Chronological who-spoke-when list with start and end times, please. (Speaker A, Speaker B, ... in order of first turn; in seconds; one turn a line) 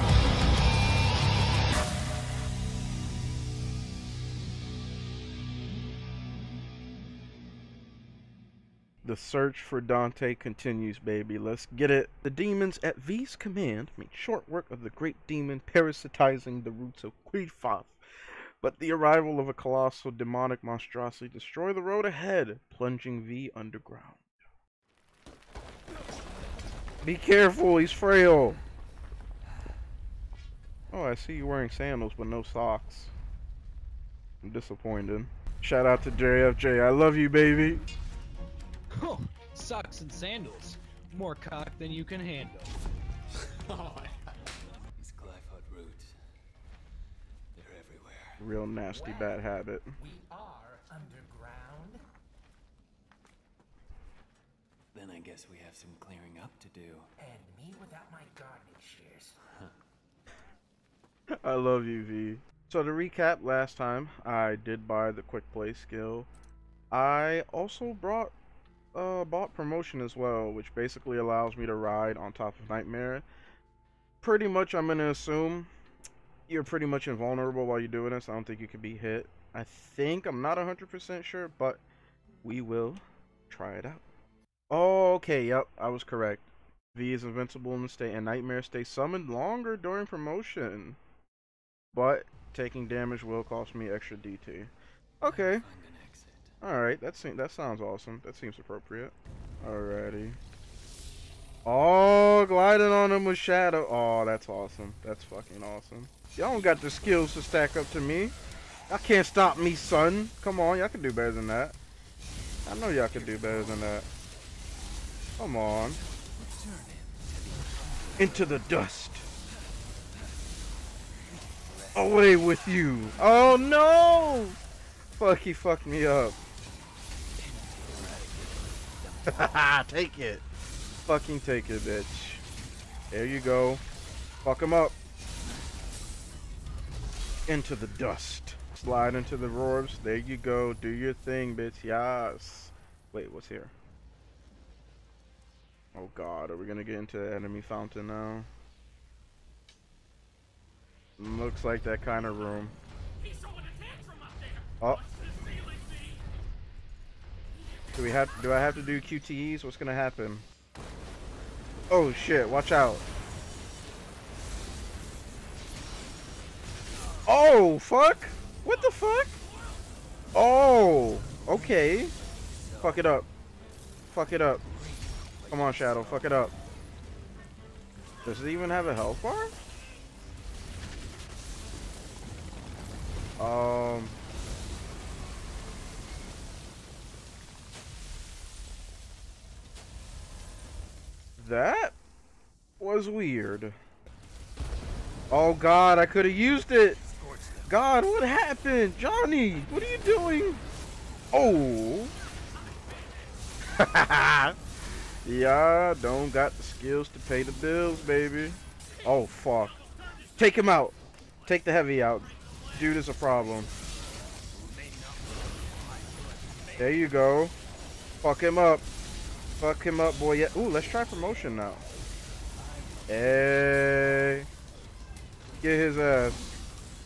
Speaker A: 9.0-18.0
Speaker A: 18.6-24.3
Speaker A: 27.0-28.6
Speaker A: 30.9-33.1
Speaker A: 34.4-37.9
Speaker B: 38.9-42.6
Speaker C: 43.5-44.2
Speaker C: 45.0-46.1
Speaker C: 47.5-48.5
Speaker A: 48.4-49.9
Speaker D: 48.9-49.4
Speaker D: 50.0-52.0
Speaker C: 54.9-57.1
Speaker D: 57.2-59.4
Speaker A: 61.3-66.3
Speaker A: 66.9-68.3
Speaker A: 68.9-73.2
Speaker A: 74.2-75.7
Speaker A: 76.5-81.8
Speaker A: 82.4-84.0
Speaker A: 84.7-91.0
Speaker A: 91.9-95.7
Speaker C: 95.2-96.5
Speaker A: 96.6-100.4
Speaker A: 101.7-108.3
Speaker A: 108.9-111.8
Speaker A: 112.7-114.1
Speaker C: 113.0-114.0
Speaker A: 115.4-116.0
Speaker C: 116.2-118.7
Speaker A: 118.2-119.3
Speaker C: 121.5-122.4
Speaker A: 122.0-124.6
Speaker A: 125.2-126.4
Speaker C: 127.4-129.6
Speaker A: 129.3-130.4
Speaker A: 131.1-132.4
Speaker A: 133.1-133.8
Speaker A: 134.4-135.0
Speaker A: 137.5-143.7
Speaker A: 145.9-148.5
Speaker A: 151.2-152.8
Speaker D: 153.3-154.5
Speaker A: 157.9-160.5
Speaker A: 161.9-163.0
Speaker A: 167.3-169.4
Speaker A: 170.3-172.1
Speaker C: 171.5-173.1
Speaker A: 172.8-173.3
Speaker A: 174.1-174.6
Speaker C: 174.7-176.4
Speaker A: 175.5-176.5
Speaker A: 178.2-179.6
Speaker A: 183.4-184.2
Speaker A: 191.4-192.0
Speaker A: 192.8-193.8
Speaker A: 195.3-197.0
Speaker C: 197.1-197.8
Speaker A: 197.7-200.6
Speaker A: 201.3-202.2
Speaker A: 203.6-204.6
Speaker A: 205.2-209.8
Speaker A: 210.4-213.7
Speaker C: 214.5-216.8
Speaker A: 216.8-217.5
Speaker A: 218.2-218.8
Speaker A: 219.6-221.8
Speaker C: 222.6-223.2
Speaker A: 223.1-224.5
Speaker A: 225.6-226.4